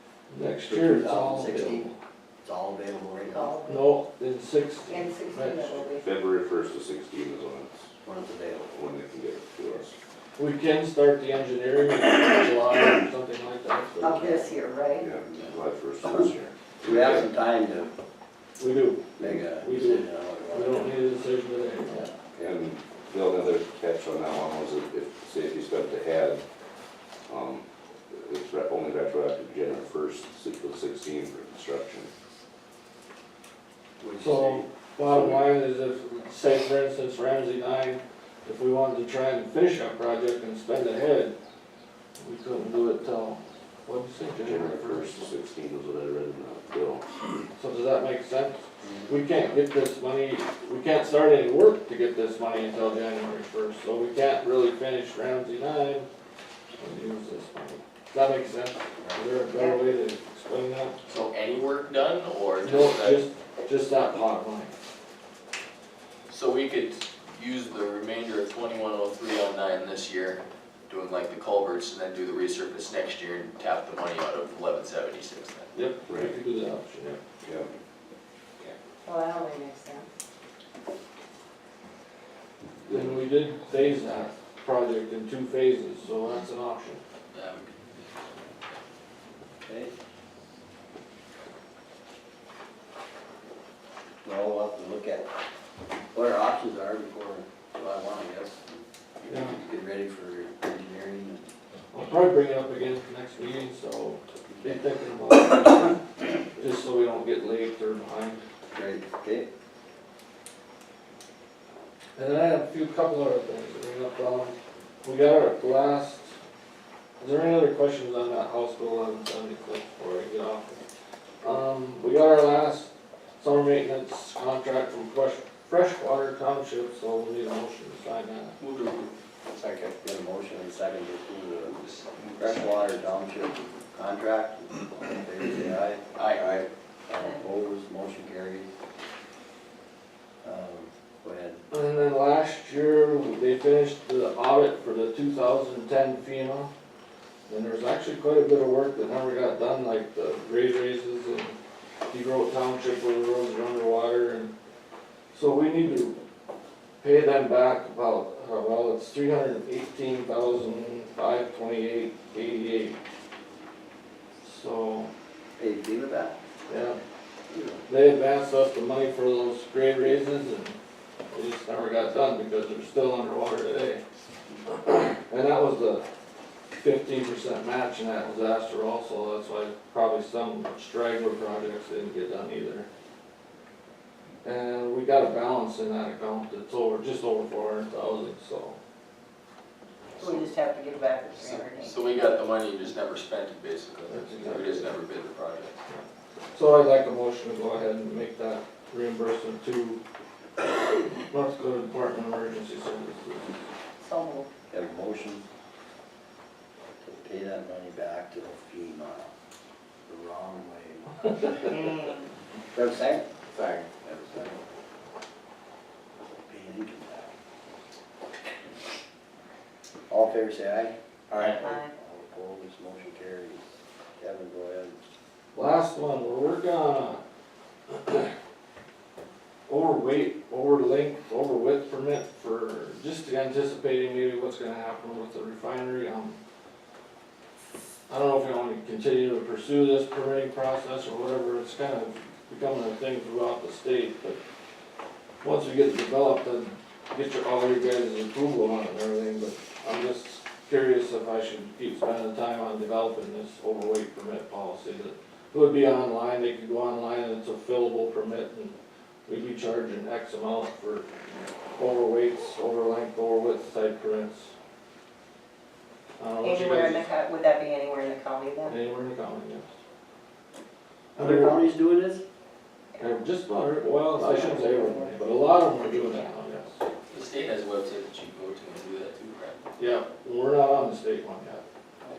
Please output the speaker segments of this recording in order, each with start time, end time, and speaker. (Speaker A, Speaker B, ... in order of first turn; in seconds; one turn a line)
Speaker A: 0.3-1.9
Speaker B: 0.7-1.9
Speaker B: 2.4-3.6
Speaker C: 3.3-3.9
Speaker A: 3.7-5.8
Speaker C: 4.9-6.1
Speaker D: 5.9-7.9
Speaker B: 8.1-8.7
Speaker D: 8.7-10.0
Speaker A: 10.4-14.2
Speaker C: 14.0-15.1
Speaker B: 14.0-14.5
Speaker D: 15.0-17.3
Speaker B: 16.8-17.9
Speaker A: 18.6-22.1
Speaker B: 19.2-21.0
Speaker B: 22.0-22.6
Speaker D: 22.4-26.4
Speaker D: 27.3-32.1
Speaker B: 34.0-34.7
Speaker A: 34.2-41.4
Speaker A: 42.2-45.2
Speaker D: 44.4-47.2
Speaker A: 47.6-56.1
Speaker B: 48.8-49.1
Speaker A: 56.8-61.0
Speaker C: 59.5-59.8
Speaker E: 61.0-63.2
Speaker A: 62.6-64.7
Speaker E: 66.3-75.7
Speaker A: 75.7-77.2
Speaker D: 77.4-77.7
Speaker C: 79.0-80.1
Speaker A: 82.9-87.0
Speaker E: 87.3-88.1
Speaker B: 89.7-89.9
Speaker B: 94.2-95.3
Speaker B: 96.1-101.5
Speaker A: 99.3-99.6
Speaker A: 101.9-108.4
Speaker B: 108.7-109.5
Speaker A: 112.2-116.3
Speaker A: 117.2-120.8
Speaker A: 121.4-128.6
Speaker E: 128.6-129.2
Speaker B: 129.6-136.5
Speaker E: 131.8-133.0
Speaker E: 136.2-136.6
Speaker B: 137.1-138.7
Speaker B: 140.4-141.6
Speaker A: 141.7-146.7
Speaker A: 147.5-151.6
Speaker A: 152.1-154.5
Speaker A: 155.3-156.2
Speaker A: 157.0-163.0
Speaker A: 164.4-165.1
Speaker B: 165.6-166.4
Speaker A: 166.7-167.0
Speaker B: 167.5-167.8
Speaker A: 167.9-170.8
Speaker A: 171.3-174.0
Speaker A: 174.7-176.1
Speaker A: 176.8-182.9
Speaker A: 184.4-188.8
Speaker C: 190.2-192.0
Speaker E: 191.8-195.8
Speaker A: 194.1-195.0
Speaker A: 195.9-200.0
Speaker A: 200.7-203.5
Speaker C: 204.0-204.5
Speaker B: 204.7-205.4
Speaker B: 207.0-209.3
Speaker B: 210.1-212.0
Speaker B: 212.7-213.3
Speaker E: 213.5-213.9
Speaker B: 214.0-214.6
Speaker B: 216.3-217.3
Speaker B: 220.1-225.0
Speaker E: 221.3-221.6
Speaker C: 221.6-221.9
Speaker A: 225.5-227.2
Speaker A: 227.9-228.3
Speaker A: 229.7-236.4
Speaker A: 238.1-244.4
Speaker A: 245.4-258.8
Speaker A: 259.3-261.1
Speaker A: 261.8-264.5
Speaker A: 266.2-267.1
Speaker C: 266.4-268.8
Speaker A: 268.7-269.7
Speaker B: 271.2-272.2
Speaker A: 271.2-271.6
Speaker A: 273.0-276.8
Speaker C: 274.2-275.2
Speaker E: 277.1-279.6
Speaker A: 279.8-281.6